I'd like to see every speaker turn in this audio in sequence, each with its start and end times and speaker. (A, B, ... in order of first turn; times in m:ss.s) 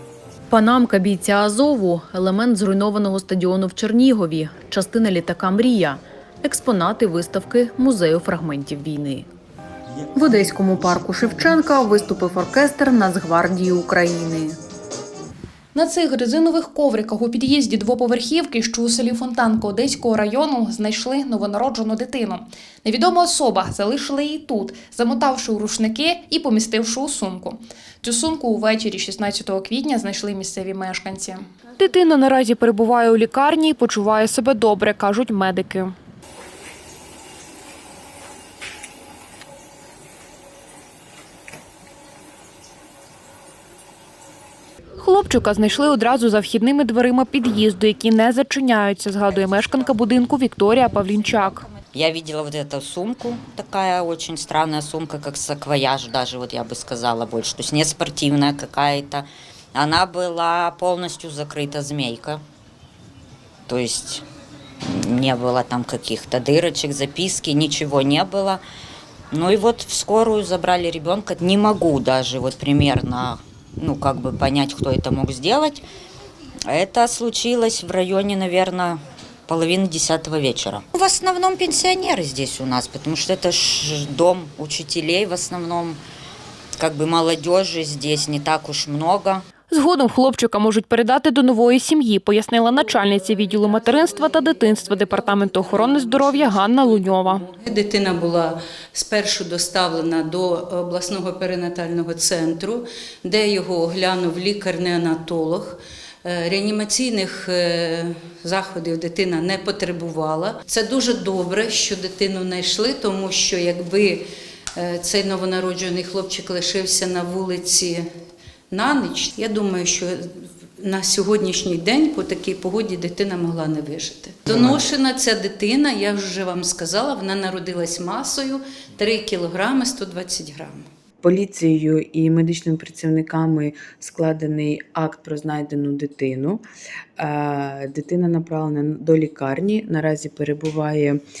0:00.5-0:09.3 A
0:10.1-0:14.6 A
0:15.7-0:35.9 B
0:45.0-0:51.7 B
0:51.9-1:02.4 C
1:03.7-1:04.2 C
1:04.9-1:08.6 C
1:09.3-1:15.8 C
1:16.7-1:26.0 C
1:26.8-1:29.4 C
1:29.7-1:37.5 B
1:35.6-1:54.2 D
1:54.8-1:58.0 D
1:58.7-2:10.8 D
2:11.2-2:16.6 E
2:17.2-2:21.2 E